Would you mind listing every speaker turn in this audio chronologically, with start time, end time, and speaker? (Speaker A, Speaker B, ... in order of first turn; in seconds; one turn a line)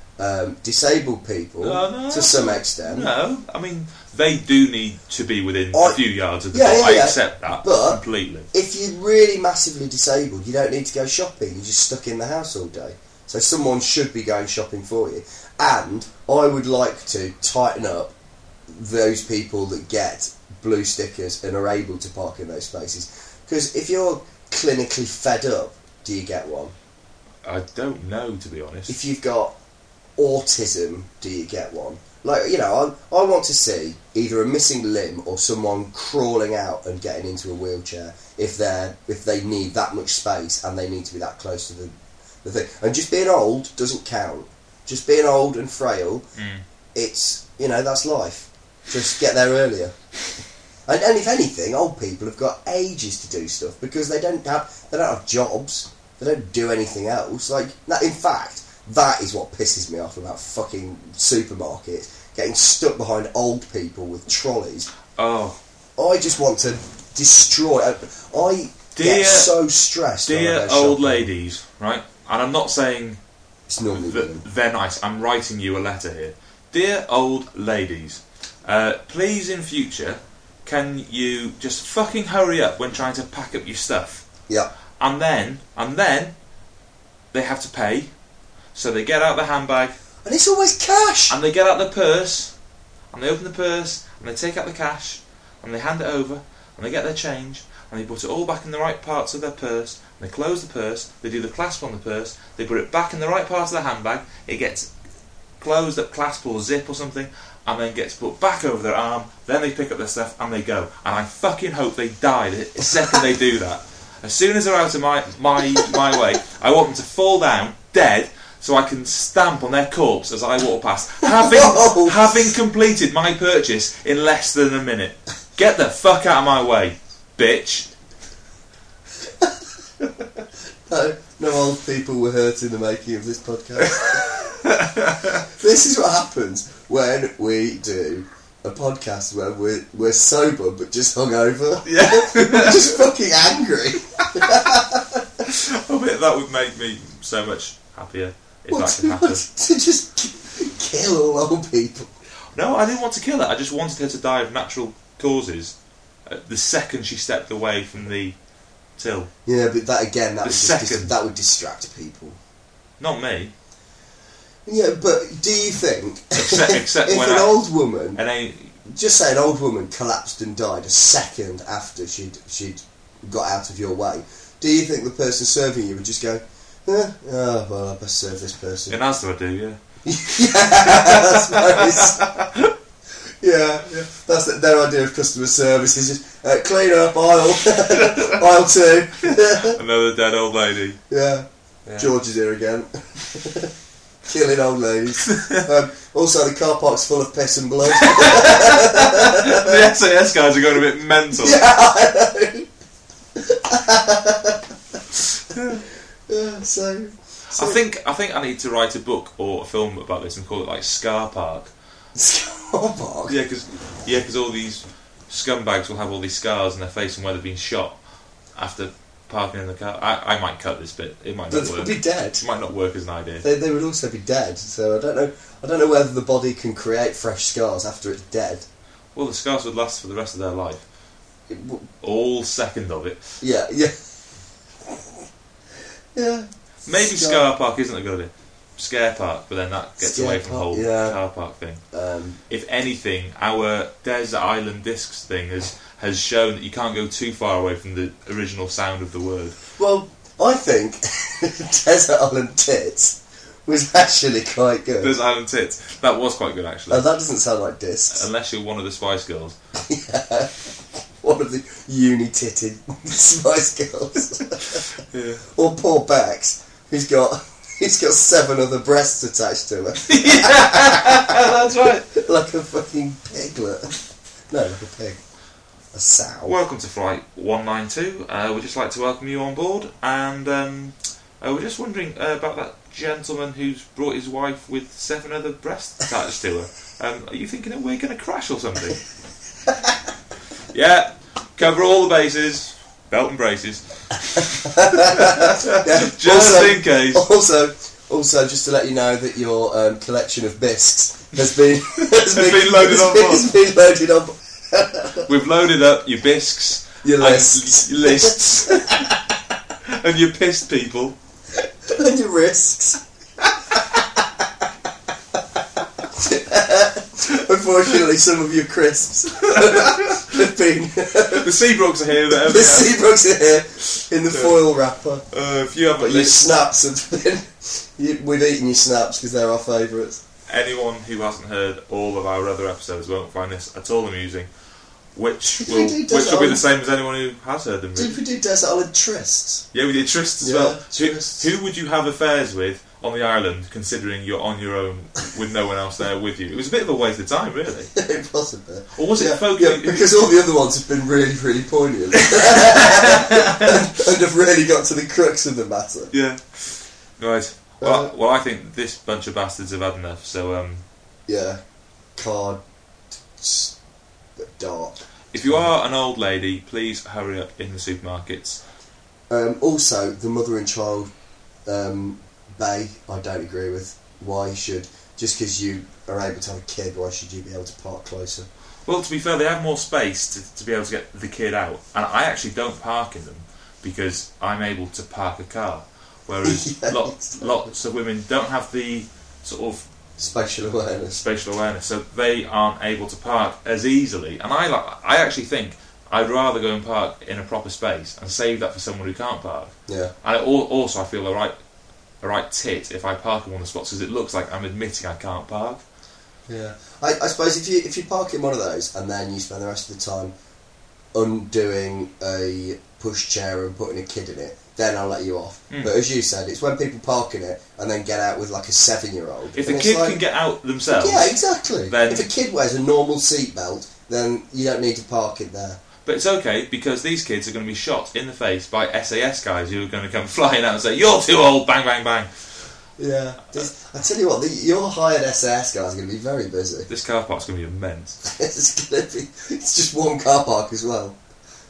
Speaker A: 0.2-3.1
Speaker B: 1.6-8.5
Speaker A: 5.7-8.0
Speaker A: 8.5-18.1
Speaker A: 18.7-26.7
Speaker B: 27.4-29.0
Speaker A: 28.9-29.6
Speaker A: 30.2-41.9
Speaker A: 42.4-46.3
Speaker B: 46.4-46.6
Speaker A: 47.0-49.9
Speaker A: 50.9-64.9
Speaker B: 65.2-65.6
Speaker A: 66.0-71.3
Speaker B: 68.9-69.5
Speaker B: 70.3-73.2
Speaker A: 73.7-74.5
Speaker B: 73.9-84.3
Speaker B: 85.0-86.3
Speaker B: 87.3-88.1
Speaker B: 88.7-90.0
Speaker A: 90.2-91.4
Speaker B: 91.3-92.5
Speaker B: 93.1-104.9
Speaker B: 105.6-127.9
Speaker A: 115.7-116.1
Speaker A: 121.2-122.5
Speaker A: 130.9-134.3
Speaker B: 133.8-135.4
Speaker A: 135.6-145.2
Speaker B: 141.8-143.0
Speaker B: 144.3-144.8
Speaker B: 145.4-149.4
Speaker A: 148.7-152.1
Speaker B: 152.5-155.8
Speaker B: 156.3-158.4
Speaker B: 159.0-159.3
Speaker A: 159.5-162.4
Speaker B: 160.4-161.2
Speaker B: 163.0-163.5
Speaker A: 164.7-168.2
Speaker B: 166.3-168.8
Speaker A: 168.8-179.0
Speaker B: 178.9-179.8
Speaker A: 180.1-182.3
Speaker B: 180.5-182.7
Speaker A: 183.4-189.8
Speaker B: 187.7-188.4
Speaker B: 189.2-191.0
Speaker A: 191.1-191.5
Speaker A: 192.0-193.7
Speaker A: 194.3-199.9
Speaker B: 195.2-195.7
Speaker B: 197.9-201.7
Speaker A: 201.3-202.7
Speaker A: 203.4-204.6
Speaker B: 205.5-205.8
Speaker A: 206.3-207.8
Speaker B: 207.5-211.7
Speaker A: 212.2-213.4
Speaker B: 213.3-218.0
Speaker B: 218.6-223.5
Speaker A: 221.5-222.4
Speaker A: 223.4-228.7
Speaker B: 229.2-230.8
Speaker A: 231.5-231.9
Speaker B: 232.0-233.4
Speaker A: 233.4-234.0
Speaker A: 236.2-237.5
Speaker B: 236.9-241.8
Speaker A: 240.0-241.2
Speaker A: 241.9-242.4
Speaker B: 242.5-249.6
Speaker A: 249.8-255.2
Speaker B: 255.0-257.1
Speaker A: 256.9-258.3
Speaker B: 258.1-259.6
Speaker A: 259.8-264.9
Speaker B: 265.0-265.4
Speaker A: 265.5-275.2
Speaker B: 270.0-272.1
Speaker A: 275.9-276.6
Speaker B: 276.4-289.0
Speaker B: 290.7-297.3
Speaker A: 294.4-305.3
Speaker B: 302.0-303.5
Speaker B: 305.2-309.1
Speaker A: 307.0-309.2
Speaker B: 309.8-311.2
Speaker A: 311.9-313.0
Speaker A: 313.7-314.2
Speaker A: 316.0-321.5
Speaker B: 319.5-320.2
Speaker B: 321.3-323.0
Speaker A: 322.3-325.2
Speaker B: 324.3-324.6
Speaker B: 325.3-326.6
Speaker A: 326.0-330.2
Speaker B: 330.5-334.5
Speaker B: 335.1-338.2
Speaker A: 335.6-336.6
Speaker A: 337.9-339.7
Speaker B: 339.7-347.9
Speaker A: 340.4-341.5
Speaker A: 347.9-356.1
Speaker B: 348.9-350.1
Speaker B: 352.3-353.9
Speaker B: 356.1-360.8
Speaker A: 357.8-358.1
Speaker A: 361.3-361.6
Speaker A: 362.2-362.6
Speaker A: 363.4-363.8
Speaker A: 364.4-365.7
Speaker B: 365.3-368.6
Speaker A: 369.3-371.1
Speaker A: 371.7-378.5
Speaker B: 378.9-389.9
Speaker A: 386.4-387.7
Speaker A: 390.2-391.2
Speaker B: 391.1-401.5
Speaker A: 399.9-400.1
Speaker B: 402.2-405.8
Speaker A: 406.5-410.3
Speaker A: 411.1-420.2
Speaker B: 419.6-422.3
Speaker A: 420.9-425.8
Speaker B: 426.1-432.3
Speaker A: 433.0-436.9
Speaker B: 436.9-438.3
Speaker A: 438.2-441.2